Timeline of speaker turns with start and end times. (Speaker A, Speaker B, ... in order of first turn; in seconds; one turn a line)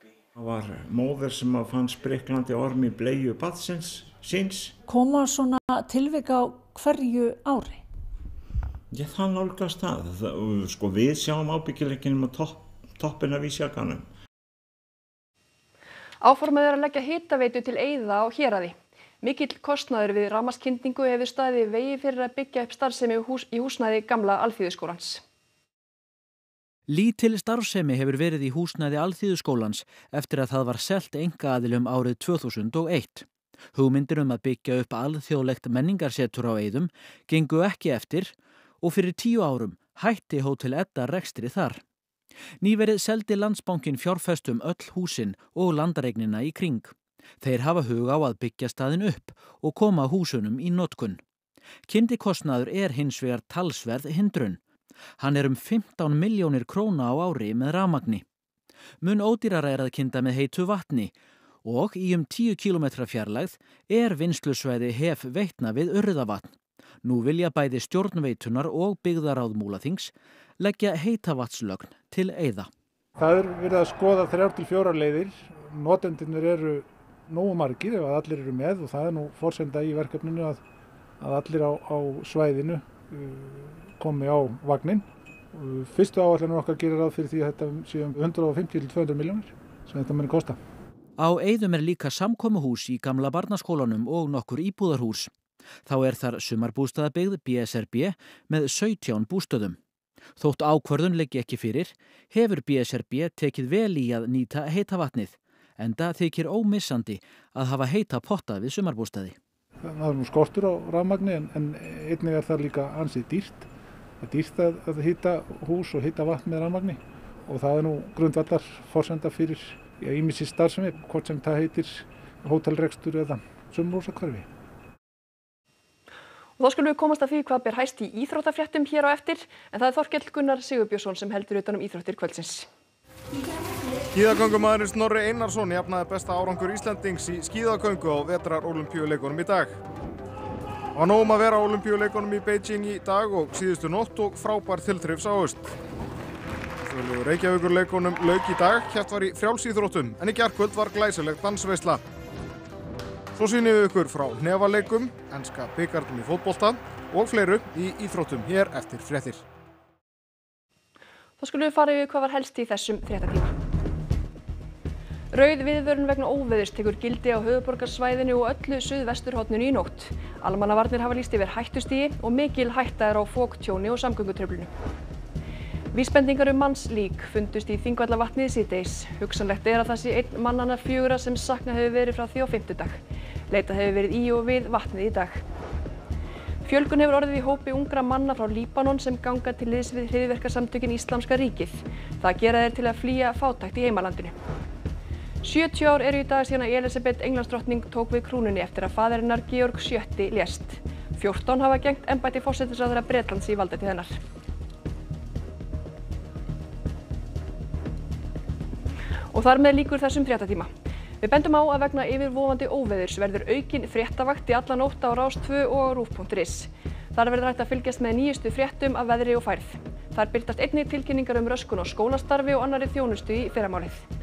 Speaker A: 0.3-4.8
Speaker B: 4.9-7.8
Speaker A: 8.9-14.1
Speaker C: 16.2-25.2
Speaker D: 26.9-41.8
Speaker D: 42.6-51.2
Speaker D: 51.9-54.6
Speaker D: 55.2-58.2
Speaker D: 59.0-72.7
Speaker E: 73.2-80.6
Speaker E: 81.2-90.6
Speaker D: 91.2-95.3
Speaker D: 95.9-99.8
Speaker D: 100.4-109.4
Speaker E: 109.8-113.7
Speaker E: 114.2-124.5
Speaker C: 126.6-132.7
Speaker F: 134.2-139.7
Speaker F: 141.0-145.8
Speaker F: 146.8-152.0
Speaker F: 153.4-159.4
Speaker C: 161.4-163.5
Speaker C: 165.3-174.7
Speaker C: 175.9-185.4
Speaker C: 186.7-194.3
Speaker C: 195.4-204.1
Speaker C: 209.3-210.7
Speaker C: 211.2-224.1